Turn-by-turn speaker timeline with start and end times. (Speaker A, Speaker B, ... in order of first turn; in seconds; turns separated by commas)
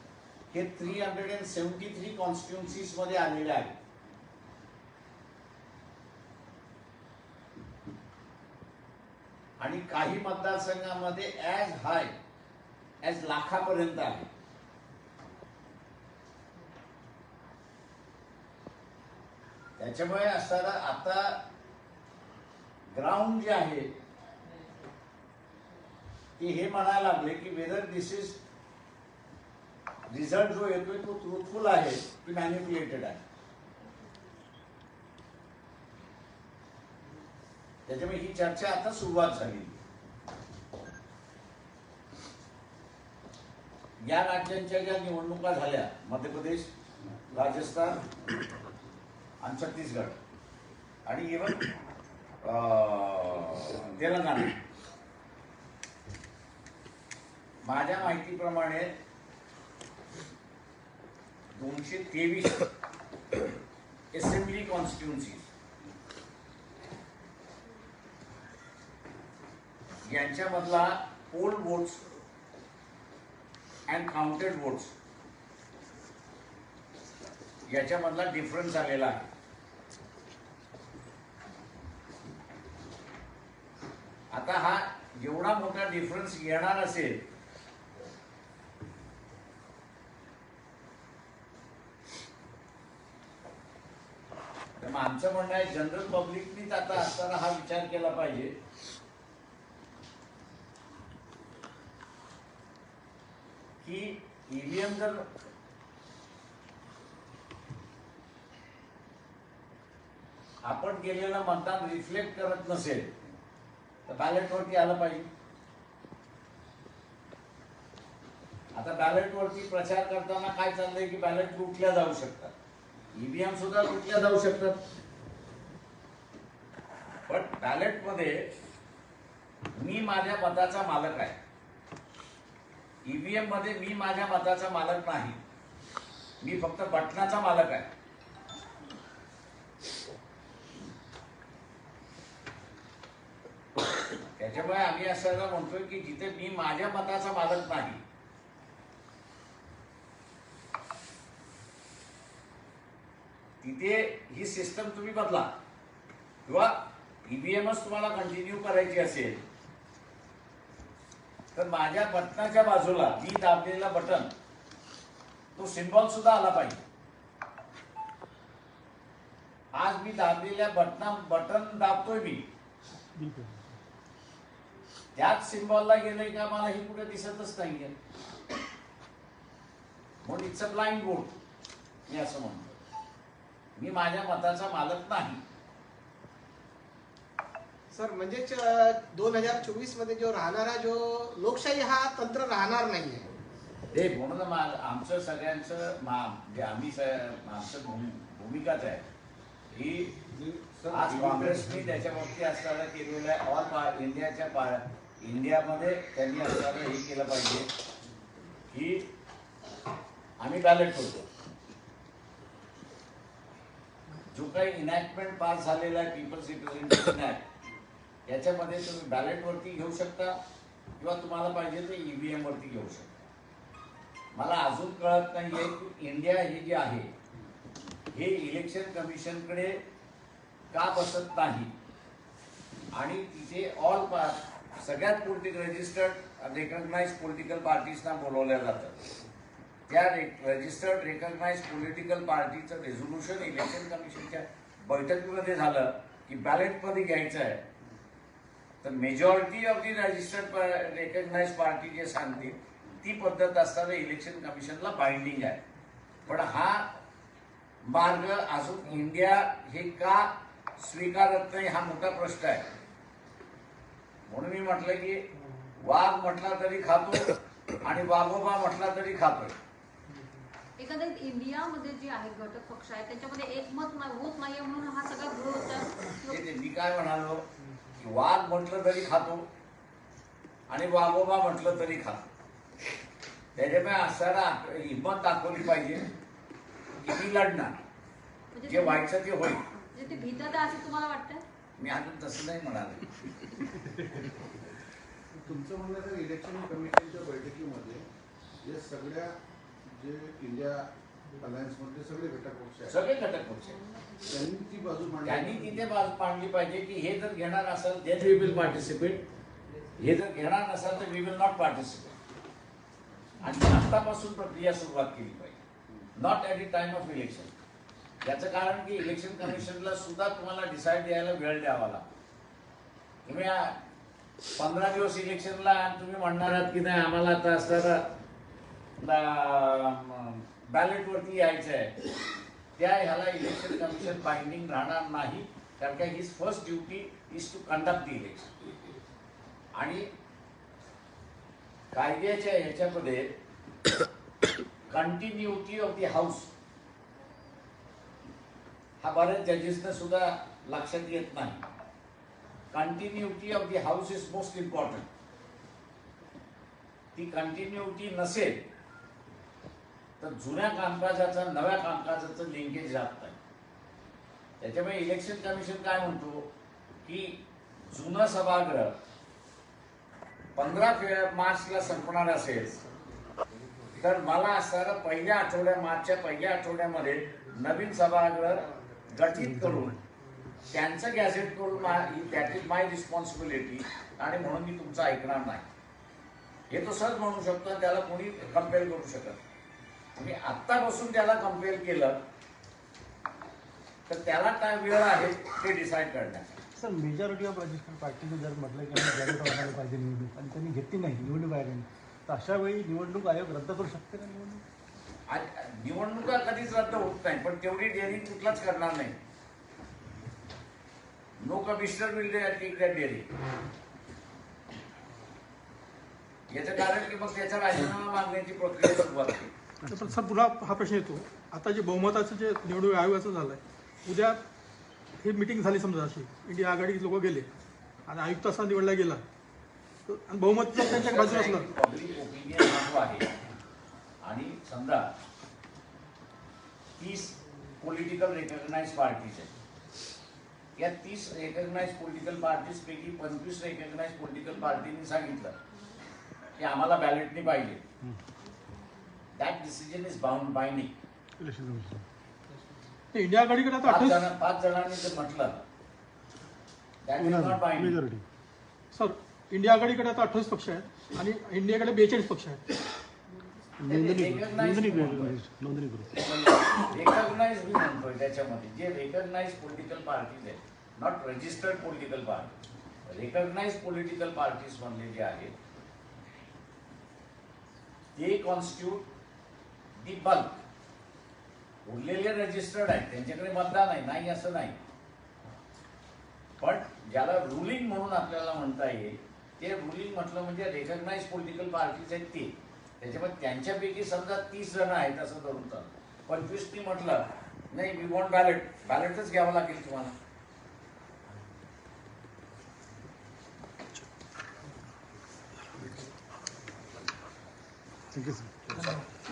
Speaker A: 0.5-3.8, Speaker A: 9.6-12.1, Speaker A: 13.0-14.3, Speaker A: 19.8-21.4, Speaker A: 22.9-23.9, Speaker A: 26.4-28.4, Speaker A: 30.1-33.2, Speaker A: 37.9-39.8, Speaker A: 44.1-46.7, Speaker A: 47.3-48.0, Speaker A: 49.4-50.2, Speaker A: 51.0-51.6, Speaker A: 52.4-54.6, Speaker A: 57.6-58.9, Speaker A: 61.5-62.7, Speaker A: 64.1-65.5, Speaker A: 70.1-72.0, Speaker A: 73.9-74.9, Speaker A: 77.7-79.3, Speaker A: 84.3-87.2, Speaker A: 94.8-98.5, Speaker A: 103.8-105.3, Speaker A: 110.6-113.2, Speaker A: 114.1-115.3, Speaker A: 118.7-122.5, Speaker A: 123.1-124.8, Speaker A: 127.3-128.5, Speaker A: 129.7-131.4, Speaker A: 133.1-135.4, Speaker A: 136.4-137.9, Speaker A: 144.4-148.0, Speaker A: 153.6-155.5, Speaker A: 156.4-159.4, Speaker A: 161.5-164.3, Speaker A: 165.6-166.8, Speaker A: 169.7-172.5, Speaker B: 173.1-173.8, Speaker A: 175.1-177.9, Speaker A: 180.2-181.3, Speaker A: 182.1-182.7, Speaker A: 183.8-185.4, Speaker C: 187.9-193.3, Speaker A: 193.9-199.1, Speaker A: 199.7-200.2, Speaker D: 200.2-202.1, Speaker A: 200.9-207.7, Speaker A: 208.7-209.1, Speaker A: 210.4-211.2, Speaker A: 214.3-217.4, Speaker A: 218.3-220.4, Speaker A: 221.0-223.2, Speaker A: 224.3-227.1, Speaker A: 228.1-229.8, Speaker A: 230.7-231.7, Speaker A: 232.9-239.0, Speaker A: 239.9-247.6, Speaker A: 248.8-255.6, Speaker A: 256.2-256.9, Speaker A: 257.8-262.7, Speaker A: 264.3-265.2, Speaker A: 265.8-269.6, Speaker E: 270.8-276.4, Speaker A: 276.3-277.5, Speaker A: 278.0-279.5, Speaker A: 280.7-282.3, Speaker A: 283.5-286.1, Speaker A: 287.0-287.8, Speaker E: 288.5-289.1, Speaker A: 288.6-289.6, Speaker E: 289.7-291.4, Speaker A: 291.8-293.1, Speaker D: 295.3-298.1, Speaker D: 298.6-303.0, Speaker A: 302.9-303.8, Speaker E: 303.8-304.3, Speaker D: 304.2-305.9, Speaker A: 305.2-309.3, Speaker A: 310.0-312.2, Speaker A: 313.4-315.6, Speaker A: 316.1-317.5, Speaker A: 318.2-322.0, Speaker A: 323.2-323.8, Speaker A: 324.6-328.1, Speaker A: 329.0-332.0, Speaker A: 332.8-338.9, Speaker A: 339.7-340.1, Speaker A: 341.9-343.3, Speaker A: 344.9-346.5, Speaker A: 349.0-351.6, Speaker A: 352.7-355.1, Speaker A: 357.1-358.7, Speaker A: 360.2-363.4, Speaker A: 364.6-366.5, Speaker A: 367.0-369.0, Speaker A: 370.6-372.8, Speaker A: 373.9-379.9, Speaker B: 379.3-380.0, Speaker A: 380.7-385.6, Speaker A: 386.7-389.4, Speaker A: 390.1-392.2, Speaker A: 394.1-396.6, Speaker B: 396.7-404.6, Speaker A: 405.3-409.2, Speaker A: 411.4-413.2, Speaker A: 416.5-419.5, Speaker B: 419.8-420.1, Speaker F: 419.9-424.4, Speaker F: 425.2-427.5, Speaker F: 428.1-429.2, Speaker F: 430.1-431.7, Speaker A: 430.8-433.3, Speaker A: 434.2-435.1, Speaker A: 437.0-439.5, Speaker A: 440.8-445.5, Speaker A: 446.6-447.8, Speaker A: 449.4-450.9, Speaker B: 451.4-452.0, Speaker F: 453.1-454.3, Speaker A: 453.8-455.6, Speaker A: 457.0-458.0, Speaker B: 457.2-458.2, Speaker F: 458.9-462.6, Speaker B: 463.8-466.5, Speaker A: 463.8-465.4, Speaker A: 466.3-472.5, Speaker A: 473.1-475.5, Speaker A: 478.1-479.1, Speaker A: 480.0-480.6, Speaker A: 481.9-484.8, Speaker A: 486.6-500.1, Speaker B: 508.1-509.0